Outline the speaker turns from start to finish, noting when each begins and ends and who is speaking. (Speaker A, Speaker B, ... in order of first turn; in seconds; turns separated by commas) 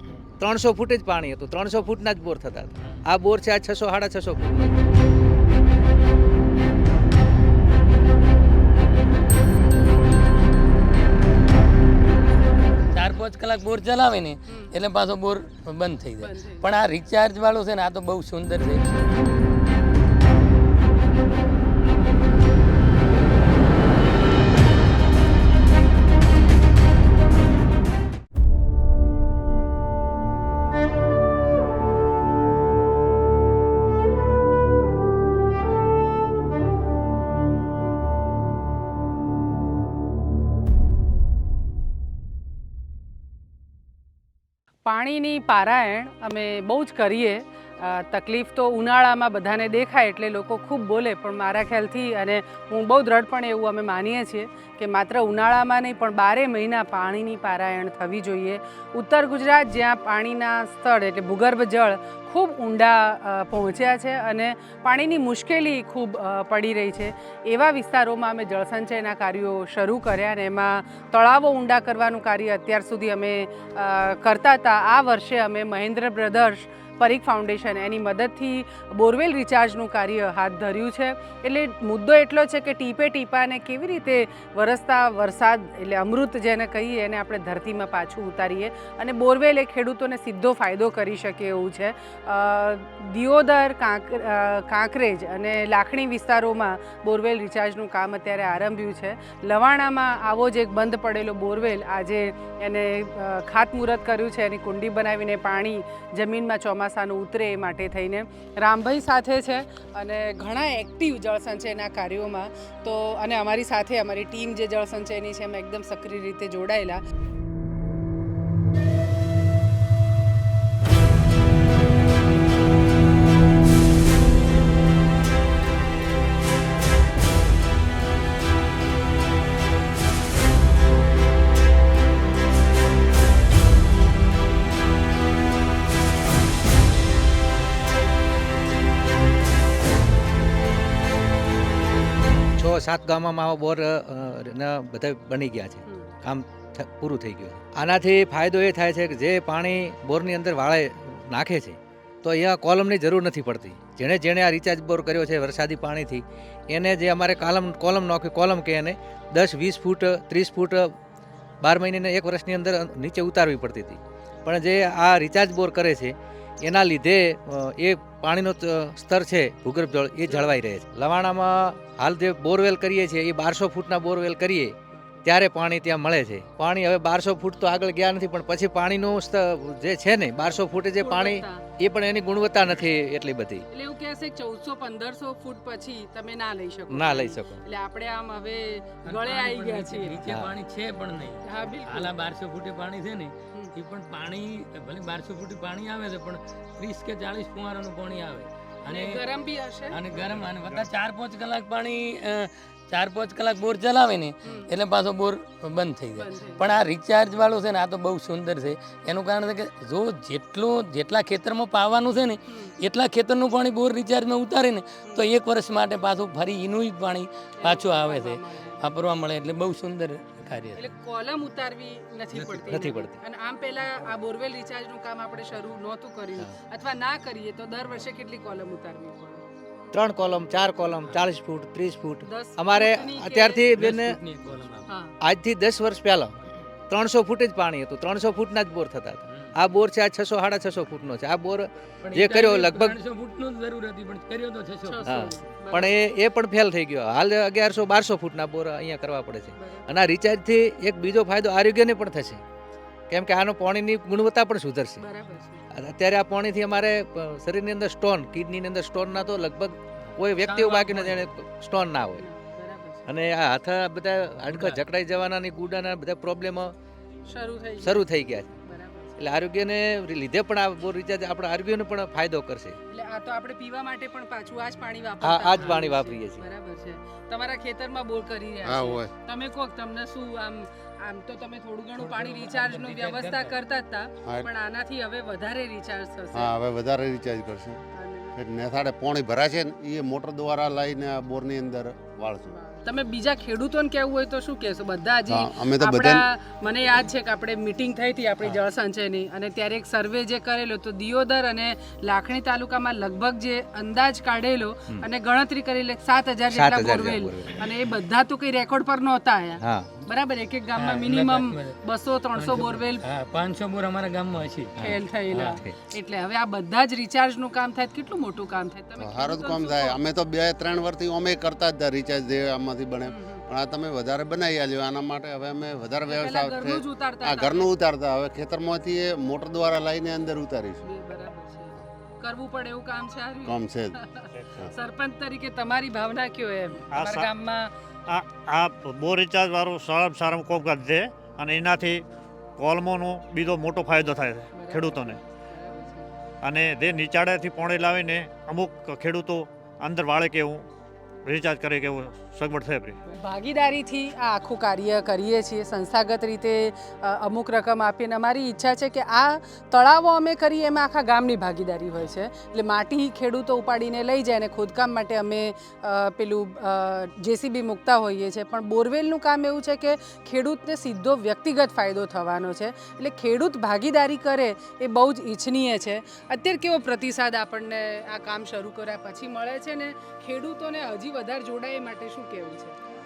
Speaker A: 0.4-4.7, Speaker B: 12.9-19.0, Speaker C: 16.2-16.7, Speaker C: 44.9-117.0, Speaker A: 142.6-160.9, Speaker C: 145.8-146.1, Speaker A: 161.6-183.6, Speaker C: 180.9-181.6, Speaker C: 183.7-190.2, Speaker A: 186.9-187.6, Speaker B: 189.0-199.2, Speaker C: 191.4-192.1, Speaker C: 198.8-200.0, Speaker B: 199.9-220.9, Speaker C: 206.2-206.7, Speaker C: 212.5-212.7, Speaker C: 217.6-218.8, Speaker C: 220.7-229.4, Speaker A: 222.3-223.2, Speaker A: 229.9-234.2, Speaker C: 232.2-233.7, Speaker B: 233.8-234.9, Speaker C: 234.9-235.1, Speaker A: 235.2-236.3, Speaker A: 236.9-243.0, Speaker B: 242.0-245.2, Speaker C: 244.8-245.9, Speaker A: 245.0-252.4, Speaker C: 249.6-249.9, Speaker A: 253.1-255.0, Speaker C: 255.0-255.7, Speaker A: 255.7-262.2, Speaker B: 260.4-261.3, Speaker C: 262.2-263.1, Speaker A: 263.1-266.7, Speaker B: 264.5-264.8, Speaker C: 267.2-269.1, Speaker A: 267.8-268.6, Speaker A: 269.2-272.8, Speaker C: 272.9-286.5, Speaker A: 275.2-276.5, Speaker D: 278.6-279.1, Speaker B: 282.0-283.6, Speaker D: 286.3-287.8, Speaker C: 287.9-288.4, Speaker D: 288.4-292.5, Speaker C: 292.6-313.0, Speaker D: 295.3-296.2, Speaker A: 306.5-307.6, Speaker A: 309.6-309.9, Speaker B: 310.8-311.8, Speaker B: 312.3-315.6, Speaker C: 314.8-320.0, Speaker D: 319.0-330.9, Speaker C: 323.1-323.4, Speaker C: 326.1-327.7, Speaker C: 330.8-337.7, Speaker D: 333.4-333.9, Speaker E: 336.9-337.3, Speaker E: 338.1-342.0, Speaker E: 342.6-345.2, Speaker C: 344.5-346.1, Speaker E: 346.4-350.6, Speaker E: 351.2-353.0, Speaker C: 353.1-382.8